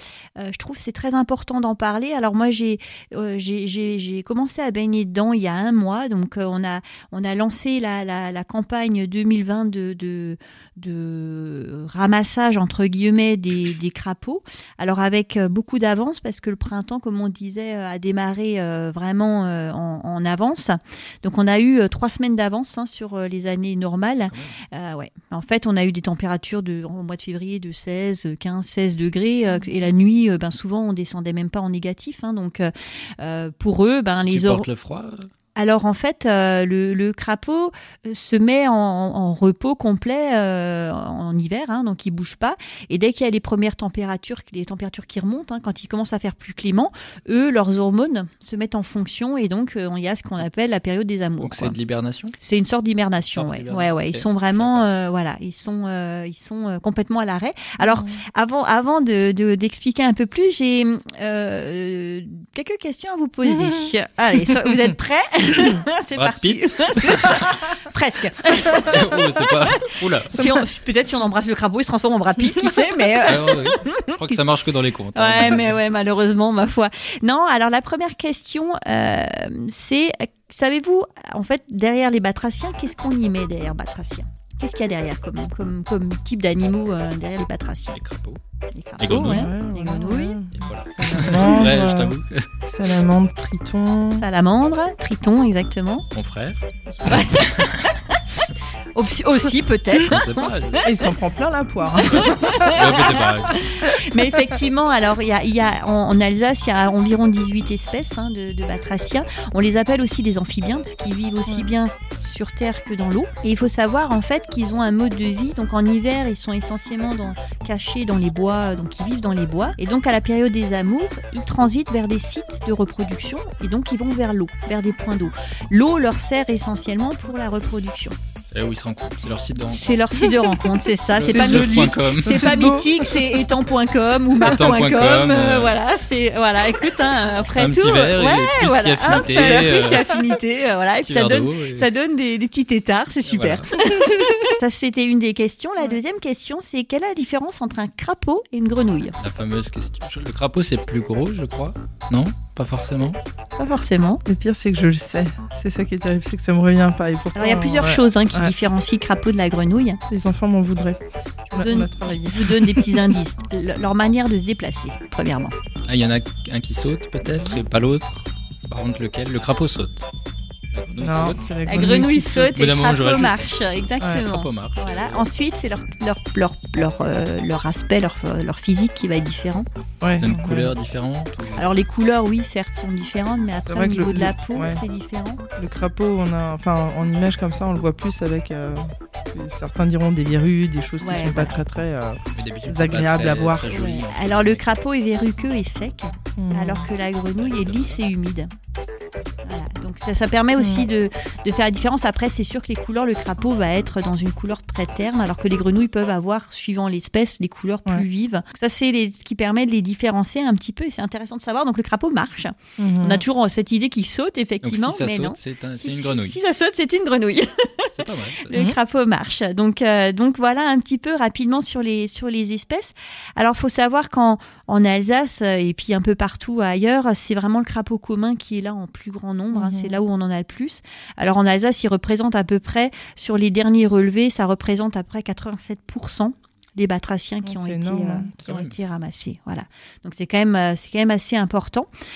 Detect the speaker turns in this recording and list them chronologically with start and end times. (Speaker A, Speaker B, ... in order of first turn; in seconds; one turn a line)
Speaker A: 0.4-34.7
Speaker B: 24.3-24.6
Speaker B: 34.2-35.3
Speaker A: 35.5-51.8
Speaker B: 51.4-52.3
Speaker A: 52.4-74.4
Speaker B: 53.3-54.9
Speaker C: 57.8-58.2
Speaker B: 66.1-67.6
Speaker B: 68.7-70.7
Speaker B: 73.3-75.8
Speaker A: 75.2-88.0
Speaker B: 87.9-88.4
Speaker A: 88.7-90.4
Speaker B: 89.0-89.5
Speaker C: 89.1-94.3
Speaker B: 90.5-92.5
Speaker A: 94.2-96.1
Speaker B: 96.1-97.9
Speaker C: 96.9-97.3
Speaker A: 97.1-98.2
Speaker A: 98.9-100.5
Speaker B: 100.1-100.9
Speaker C: 100.8-102.8
Speaker A: 102.0-128.2
Speaker B: 102.2-103.6
Speaker B: 128.5-130.2
Speaker A: 129.6-149.2
Speaker B: 131.1-132.5
Speaker C: 131.2-133.3
Speaker B: 134.3-135.8
Speaker B: 137.4-140.0
Speaker B: 141.0-141.9
Speaker B: 143.3-143.7
Speaker B: 149.2-153.2
Speaker A: 153.6-154.2
Speaker C: 154.3-158.5
Speaker A: 157.3-160.0
Speaker C: 160.1-161.0
Speaker C: 161.5-163.1
Speaker A: 161.5-165.5
Speaker B: 165.9-170.1
Speaker B: 170.7-172.0
Speaker C: 171.0-172.5
Speaker A: 171.7-179.7
Speaker B: 172.5-173.5
Speaker B: 174.2-175.3
Speaker C: 180.0-180.7
Speaker B: 180.2-181.7
Speaker A: 180.2-180.6
Speaker A: 181.6-185.4
Speaker C: 183.6-184.8
Speaker C: 185.6-193.7
Speaker A: 191.0-191.6
Speaker B: 192.3-194.7
Speaker A: 193.7-198.5
Speaker C: 196.4-196.9
Speaker B: 197.4-198.0
Speaker A: 199.4-241.9
Speaker C: 200.6-200.9
Speaker C: 212.8-213.2
Speaker B: 214.6-216.4
Speaker B: 217.9-218.6
Speaker C: 229.5-230.0
Speaker C: 237.4-238.3
Speaker B: 238.4-238.8